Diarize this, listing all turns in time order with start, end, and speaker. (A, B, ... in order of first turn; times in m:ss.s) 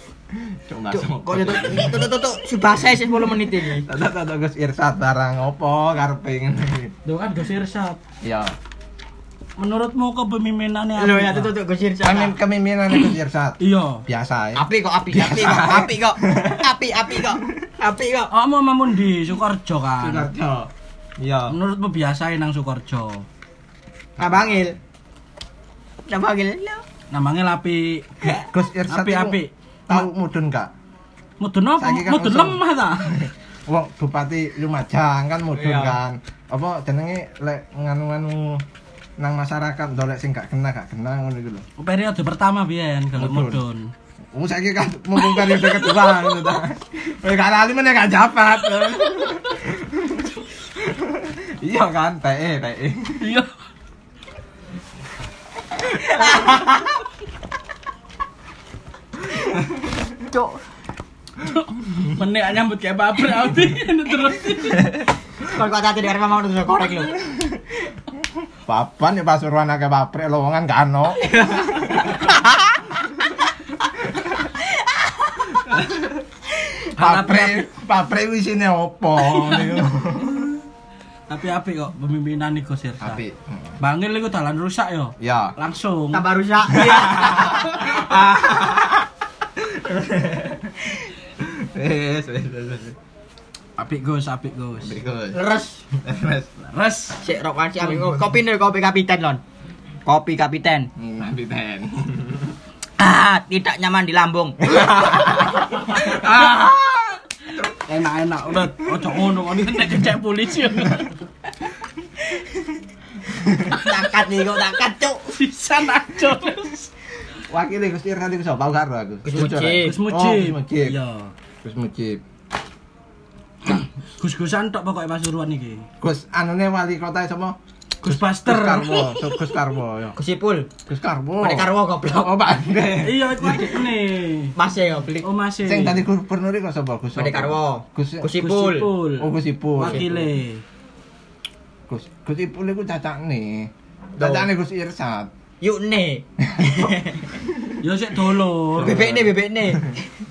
0:00.5-0:02.1 A
0:00.9-0:03.9 B
0:03.8-0:06.9 A
0:07.0-0:08.0 C
0:08.2-0:08.6 A
0:09.6-0:11.5 C
0:11.0-0:12.4 B
0:12.0-0:16.7 A
0:13.6-0:14.0 C
0:14.6-0:18.3 B
0:18.3-0:20.3 C
0:20.0-0:21.6 A
0:21.5-0:23.3 C
0:24.2-0:24.7 A
0:24.2-0:24.8 B
0:26.1-0:26.8 B
0:27.1-0:28.1 C
0:28.5-0:30.7 A
0:28.9-0:29.5 C
0:31.4-0:33.3 C
0:31.8-0:38.6 A
0:35.5-0:36.0 B
0:39.2-0:41.6 A
0:41.8-0:43.9 C
0:43.2-0:43.6 A
0:44.3-0:53.3 A
0:45.3-0:46.2 C
0:53.2-0:53.5 C
0:56.0-0:57.0 B
0:56.1-0:56.6 A
1:01.4-1:05.0 C
1:05.5-1:07.2 B
1:08.6-1:12.0 A
1:11.2-1:12.8 B
1:14.6-1:15.5 B
1:15.6-1:16.2 A
1:17.0-1:17.6 C
1:17.0-1:20.4 A
1:21.3-1:23.2 C
1:23.0-1:23.8 A
1:23.8-1:26.2 C
1:25.2-1:25.6 A
1:26.1-1:28.1 B
1:26.8-1:33.0 A
1:33.8-1:34.9 C
1:34.8-1:35.4 A
1:35.3-1:35.8 B
1:36.0-1:36.6 A
1:36.7-1:37.2 C
1:37.2-1:39.4 B
1:37.9-1:38.2 C
1:40.1-1:40.9 B
1:41.0-1:42.6 A
1:43.0-1:44.7 B
1:44.6-1:47.1 A
1:45.9-1:46.6 C
1:47.7-1:51.2 C
1:53.7-1:55.2 B
1:55.2-1:56.9 C
1:57.5-2:01.0 A
1:59.2-2:00.0 B
1:59.4-2:01.3 C
2:01.6-2:02.2 A
2:03.6-2:05.9 C
2:06.0-2:10.2 A
2:08.0-2:09.2 C
2:10.2-2:10.7 B
2:10.9-2:13.8 A
2:11.4-2:12.3 B
2:13.0-2:14.6 C
2:14.6-2:15.3 B
2:15.2-2:16.0 C
2:15.6-2:18.4 A
2:17.2-2:18.9 B
2:18.3-2:20.6 C
2:19.2-2:20.3 A
2:21.9-2:25.3 A
2:24.2-2:24.5 B
2:25.6-2:27.3 B
2:26.4-2:27.8 A
2:27.8-2:29.0 C
2:28.8-2:29.9 A
2:28.8-2:30.0 B